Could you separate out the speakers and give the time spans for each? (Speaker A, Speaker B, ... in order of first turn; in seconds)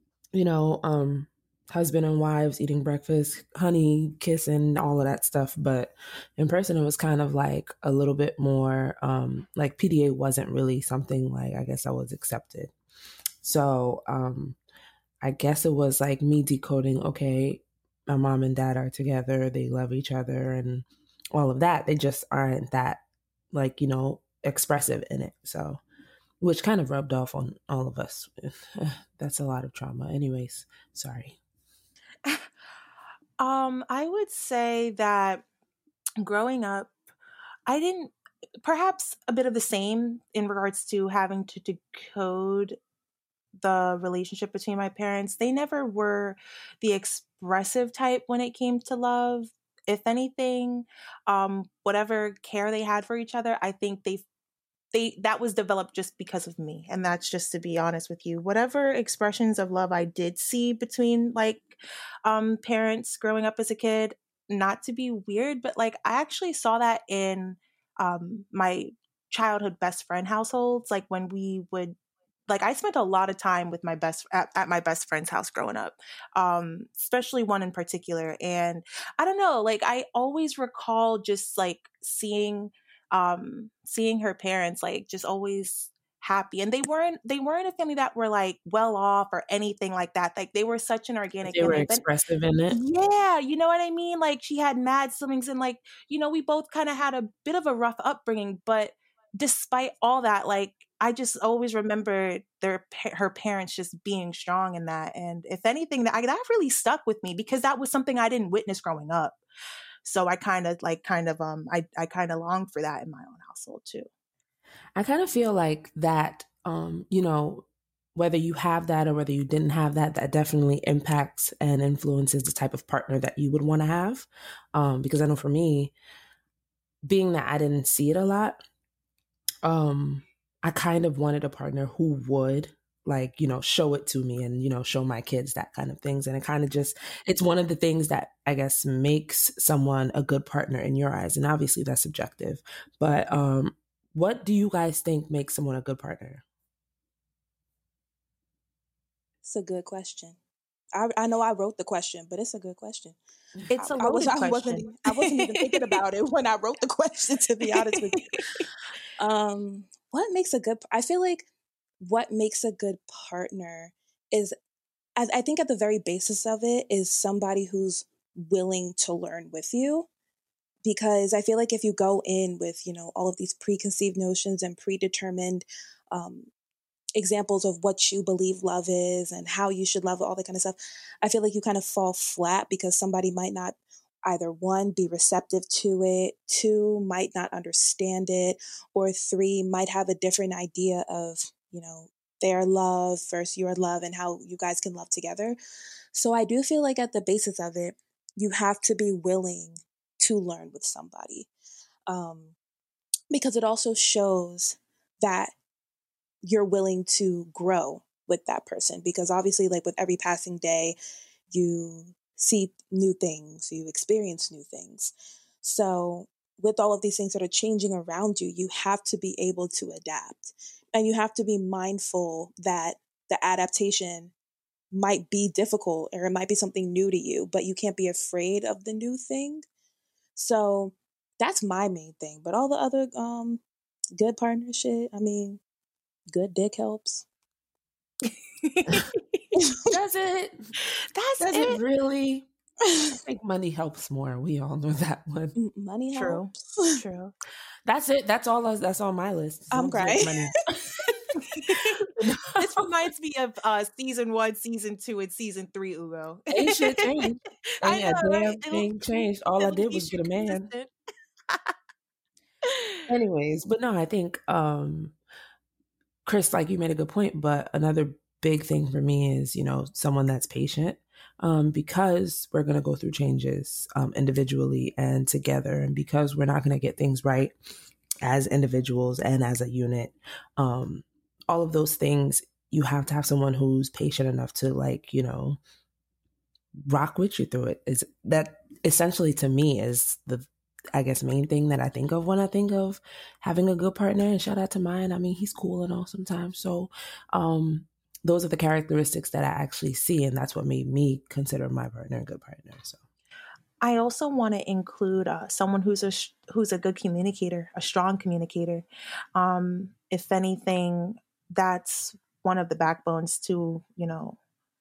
Speaker A: 0.3-12.7, 13.4-14.6, 15.2-25.8, 26.4-31.4, 91.4-92.8, 115.0-125.9, 127.0-128.6, 129.6-146.4, 239.9-240.7, 241.4-242.5, 243.2-245.5, 247.8-251.0, 252.1-252.8, 256.5-260.7, 263.1-265.1, 266.2-277.5, 278.2-285.6, 286.9-303.0
Speaker B: 33.4-35.4, 36.2-36.9, 37.7-42.8, 43.6-54.2, 54.9-71.9, 72.5-92.0, 92.7-109.4, 110.0-114.1, 153.7-156.0, 238.6-239.4, 241.0-241.8, 246.1-247.3, 251.5-251.9, 252.6-257.2, 257.8-260.9, 262.7-263.0, 303.8-314.4
Speaker C: 149.4-150.4, 150.9-153.2, 153.7-158.4, 159.2-161.5, 162.0-164.5, 165.2-170.1, 170.8-176.5, 177.2-195.6, 196.1-201.5, 202.1-202.5, 203.3-205.5, 206.4-210.9, 211.5-215.1, 215.6-224.3, 224.9-229.6, 230.3-233.6, 234.2-235.6, 236.3-237.2, 245.5-247.0, 249.7-250.5